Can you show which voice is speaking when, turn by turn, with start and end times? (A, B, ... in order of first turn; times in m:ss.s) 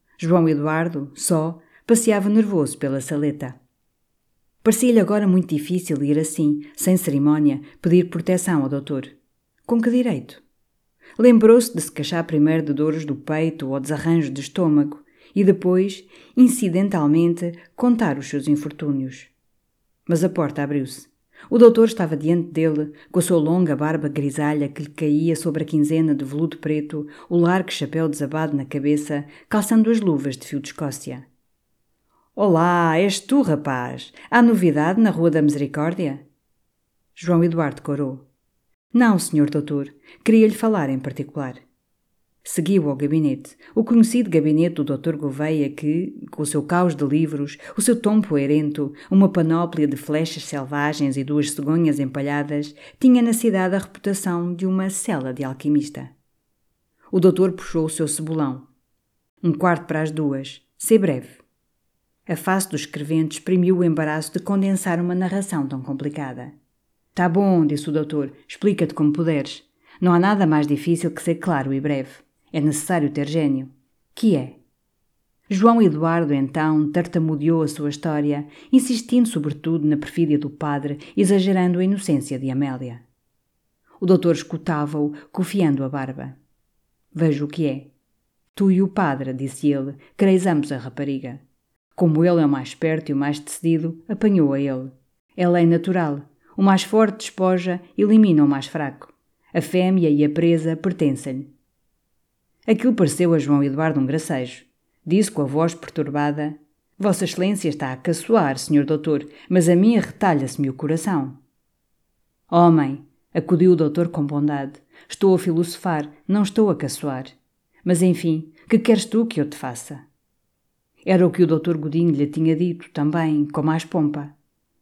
0:00.2-0:03.6 A
0:04.6-0:09.1 A
0:09.6-0:10.4 A
0:11.2-0:19.3 A
0:20.1-0:31.2 A
0:32.4-0:36.2 A
0:37.2-0:38.2 A
0:38.9-0:41.6 A
0:42.4-0:56.1 A
0:57.1-0:58.6 A
0:59.4-1:01.4 A
1:02.3-1:06.5 A
1:07.1-1:14.6 A
1:15.5-1:23.0 A
1:24.0-1:26.4 A
1:27.1-1:27.9 A
1:28.5-1:31.4 A
1:32.0-1:41.5 A
1:42.6-1:51.4 A
1:52.5-1:57.3 A
1:57.8-2:00.0 A
2:01.0-2:04.3 A